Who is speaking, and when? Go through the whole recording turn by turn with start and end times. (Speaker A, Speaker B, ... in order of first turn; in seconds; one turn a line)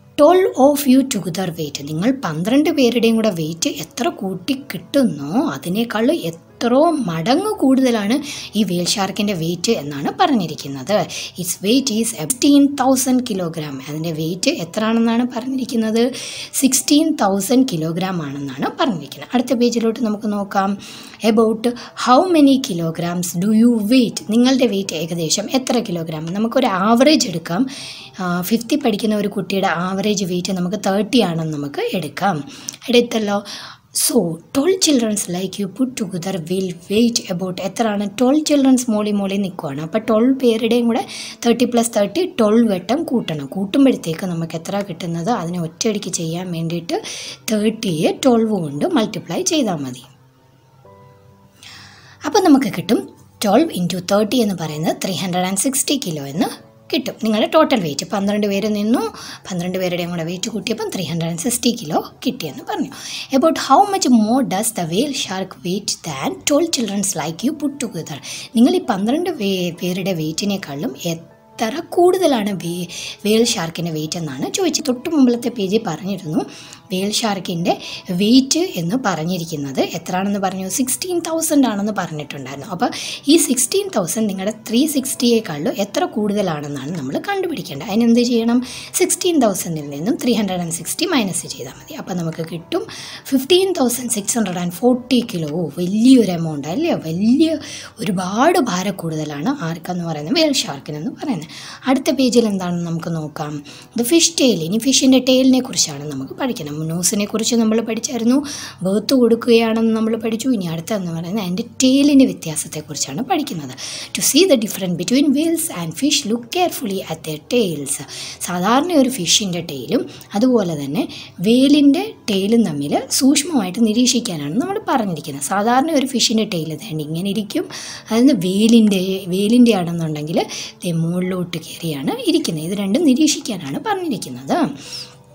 Speaker A: 0.2-27.7
Speaker A: 28.2-50.1
Speaker A: 52.3-134.7